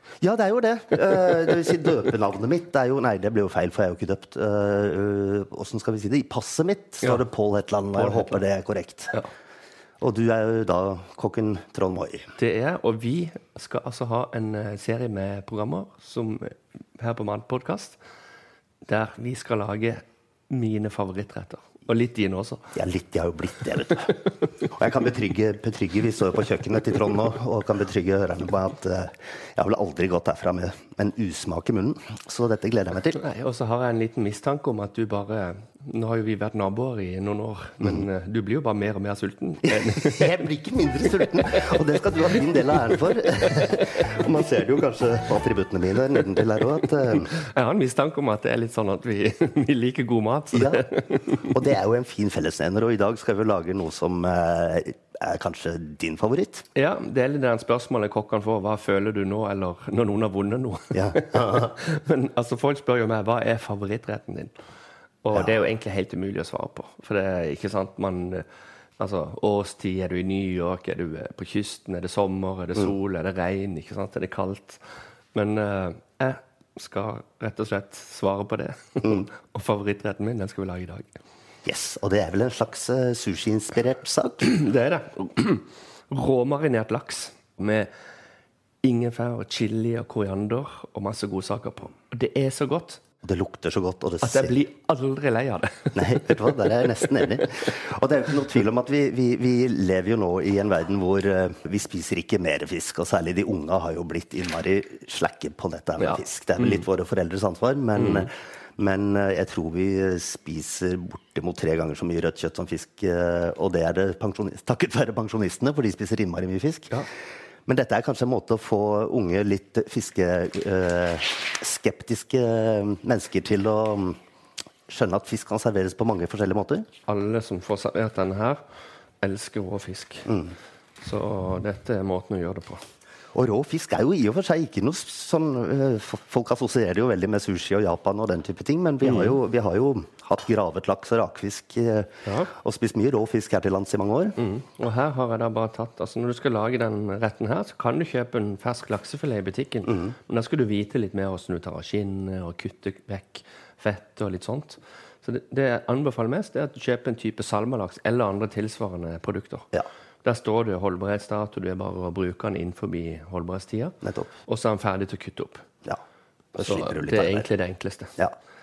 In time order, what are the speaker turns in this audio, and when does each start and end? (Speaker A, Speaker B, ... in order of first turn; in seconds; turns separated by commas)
Speaker A: 0.2-9.2, Speaker B: 8.0-8.4, Speaker A: 10.0-12.3, Speaker B: 12.4-18.0, Speaker B: 18.9-22.7, Speaker A: 22.7-33.2, Speaker B: 33.1-40.4, Speaker A: 39.8-47.3, Speaker B: 47.2-51.6, Speaker A: 50.5-56.7, Speaker B: 56.8-64.5, Speaker A: 60.9-61.7, Speaker B: 65.2-68.5, Speaker B: 69.0-74.8, Speaker B: 75.3-81.1, Speaker A: 81.6-84.5, Speaker B: 84.4-87.9, Speaker B: 88.8-93.0, Speaker A: 93.2-94.6, Speaker B: 94.2-97.2, Speaker A: 95.9-117.0, Speaker B: 106.0-106.8, Speaker B: 108.0-108.3, Speaker A: 117.7-124.2, Speaker A: 124.9-126.9, Speaker B: 127.1-128.6, Speaker B: 129.2-130.3, Speaker A: 130.3-130.5, Speaker B: 131.0-132.8, Speaker A: 133.3-144.4, Speaker B: 139.0-139.4, Speaker B: 142.2-142.5, Speaker B: 144.4-159.7, Speaker B: 160.2-165.7, Speaker A: 164.0-164.3, Speaker A: 166.6-167.5, Speaker B: 166.6-168.2